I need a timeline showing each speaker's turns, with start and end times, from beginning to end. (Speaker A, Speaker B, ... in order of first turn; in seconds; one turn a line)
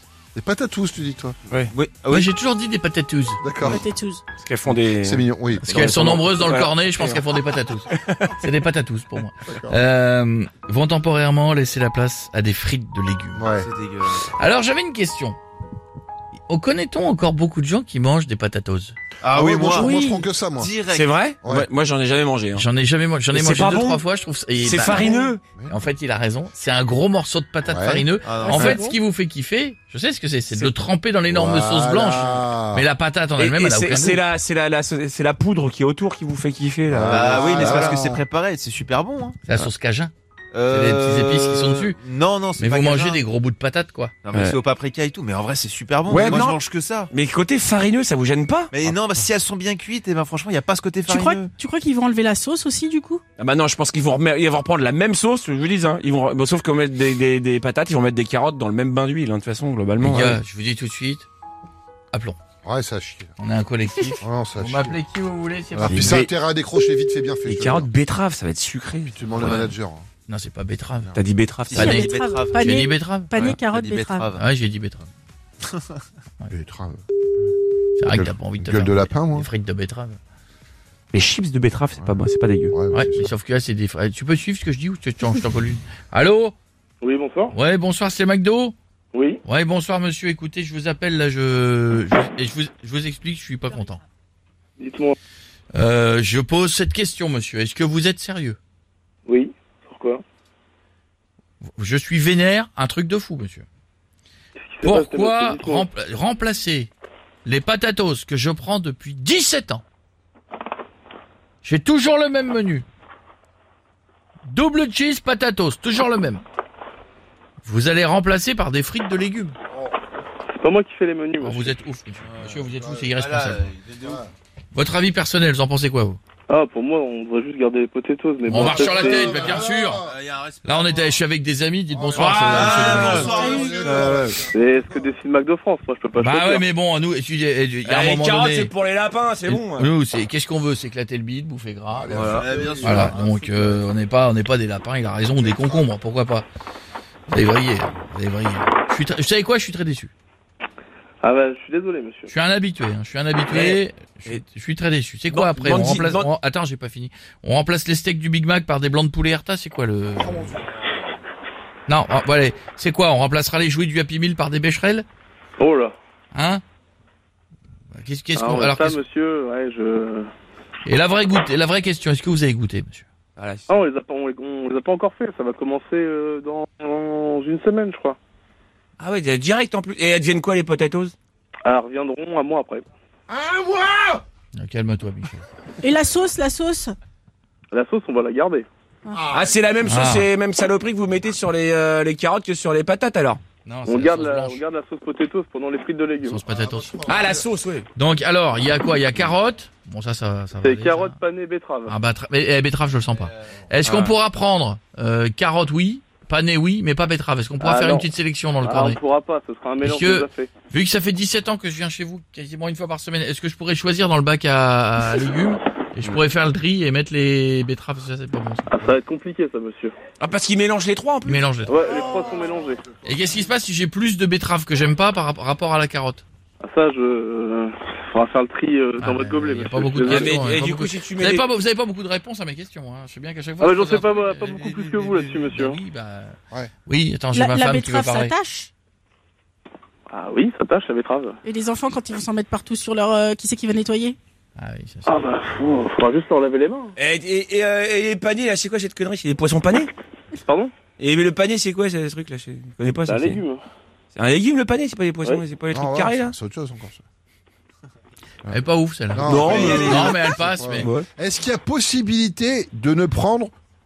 Speaker A: 0.3-1.4
Speaker B: 1.5-2.3
Speaker C: 2.1-3.4
Speaker A: 3.4-3.9
Speaker D: 3.6-4.2
Speaker E: 4.4-8.3
Speaker A: 5.0-5.9
Speaker C: 5.7-13.5
Speaker A: 9.5-9.8
Speaker A: 13.3-13.7
Speaker B: 13.6-14.2
Speaker C: 14.4-15.4
Speaker C: 16.5-19.0
Speaker B: 19.2-20.0
Speaker A: 19.3-20.7
Speaker E: 19.8-20.3
Speaker B: 20.6-21.3
Speaker E: 20.9-22.7
Speaker A: 21.4-21.7
Speaker C: 22.5-25.1
Speaker E: 23.3-24.0
Speaker E: 24.6-25.4
Speaker D: 24.9-25.3
Speaker C: 25.7-34.2
Speaker A: 27.7-28.1
Speaker B: 28.2-28.9
Speaker D: 28.4-29.0
Speaker A: 31.3-32.9
Speaker E: 33.4-38.0
Speaker A: 36.9-38.2
Speaker B: 37.0-39.4
Speaker C: 39.5-40.1
Speaker B: 40.5-43.2
Speaker C: 40.7-42.0
Speaker C: 42.6-44.1
Speaker B: 44.2-47.1
Speaker E: 44.3-44.6
Speaker E: 46.1-48.9
Speaker B: 48.7-51.5
Speaker D: 51.0-53.2
Speaker E: 53.4-60.4
Speaker C: 60.0-61.3
Speaker C: 62.1-62.4
Speaker A: 62.6-63.3
Speaker C: 63.4-66.2
Speaker A: 64.2-65.0
Speaker A: 65.7-67.9
Speaker E: 65.8-66.3
Speaker E: 67.5-69.7
Speaker A: 69.1-70.1
Speaker C: 69.4-69.7
Speaker C: 70.3-71.1
Speaker E: 71.1-72.0
Speaker B: 71.6-72.8
Speaker D: 71.8-74.3
Speaker C: 71.8-73.3
Speaker B: 73.3-74.5
Speaker C: 74.4-75.1
Speaker A: 76.5-77.0
Speaker C: 78.0-80.2
Speaker A: 78.1-79.5
Speaker E: 81.1-82.8
Speaker A: 82.0-83.3
Speaker C: 82.9-86.5
Speaker F: 87.0-87.5
Speaker C: 87.5-88.8
Speaker F: 89.1-89.4
Speaker C: 89.5-94.0
Speaker F: 94.8-95.2
Speaker C: 95.7-98.6
Speaker F: 99.3-100.2
Speaker C: 101.8-103.7
Speaker F: 104.7-105.9
Speaker C: 104.8-106.9
Speaker C: 107.5-109.8
Speaker C: 111.6-112.8
Speaker C: 114.5-116.4
Speaker C: 117.6-119.6
Speaker F: 120.5-121.8
Speaker C: 121.4-123.7
Speaker B: 122.3-122.6
Speaker A: 122.7-123.1
Speaker B: 123.2-124.2
Speaker C: 124.7-126.2
Speaker F: 126.5-129.4
Speaker C: 128.5-130.1
Speaker A: 128.8-130.2
Speaker B: 129.4-131.2
Speaker C: 130.6-133.4
Speaker A: 131.9-134.8
Speaker E: 132.2-133.6
Speaker B: 132.5-134.4
Speaker F: 134.5-136.7
Speaker C: 136.2-138.7
Speaker E: 137.8-139.9
Speaker C: 139.5-146.5
Speaker A: 141.9-143.2
Speaker B: 142.1-143.5
Speaker C: 147.3-150.1
Speaker F: 151.2-152.3
Speaker C: 152.3-160.6
Speaker E: 153.5-154.4
Speaker E: 155.3-156.3
Speaker C: 161.9-165.1
Speaker F: 165.6-165.9
Speaker C: 166.3-166.6
Speaker C: 167.9-169.0
Speaker F: 168.3-170.3
Speaker C: 170.9-173.1
Speaker E: 173.4-173.7
Speaker F: 173.7-178.2
Speaker E: 179.0-181.1
Speaker F: 181.7-182.9
Speaker A: 183.3-184.2
Speaker C: 184.6-185.4
Speaker D: 185.8-186.9
Speaker F: 187.7-188.7
Speaker A: 189.1-189.5
Speaker E: 189.3-193.4
Speaker C: 189.8-190.3
Speaker C: 193.7-194.6
Speaker F: 193.9-196.4
Speaker C: 196.2-197.0
Speaker A: 196.5-197.5
Speaker E: 197.1-197.9
Speaker C: 197.9-201.2
Speaker F: 200.6-201.9
Speaker C: 201.9-209.0
Speaker F: 207.6-208.1
Speaker F: 208.6-210.5
Speaker C: 209.8-218.9
Speaker F: 218.7-219.9
Speaker E: 220.2-221.4
Speaker C: 221.2-221.8
Speaker F: 221.7-222.8
Speaker C: 223.0-226.2
Speaker F: 226.6-230.4
Speaker C: 229.0-238.3
Speaker E: 230.1-231.4
Speaker F: 233.6-235.8
Speaker D: 237.3-238.7
Speaker F: 240.1-241.4
Speaker D: 241.4-244.2
Speaker C: 244.6-245.2
Speaker F: 245.1-246.9
Speaker E: 247.0-249.9
Speaker F: 250.4-250.7
Speaker E: 251.0-253.4
Speaker F: 253.1-253.6
Speaker E: 254.1-256.4
Speaker A: 255.7-257.0
Speaker C: 258.5-260.9
Speaker A: 259.1-263.5
Speaker E: 259.2-260.2
Speaker E: 260.8-261.1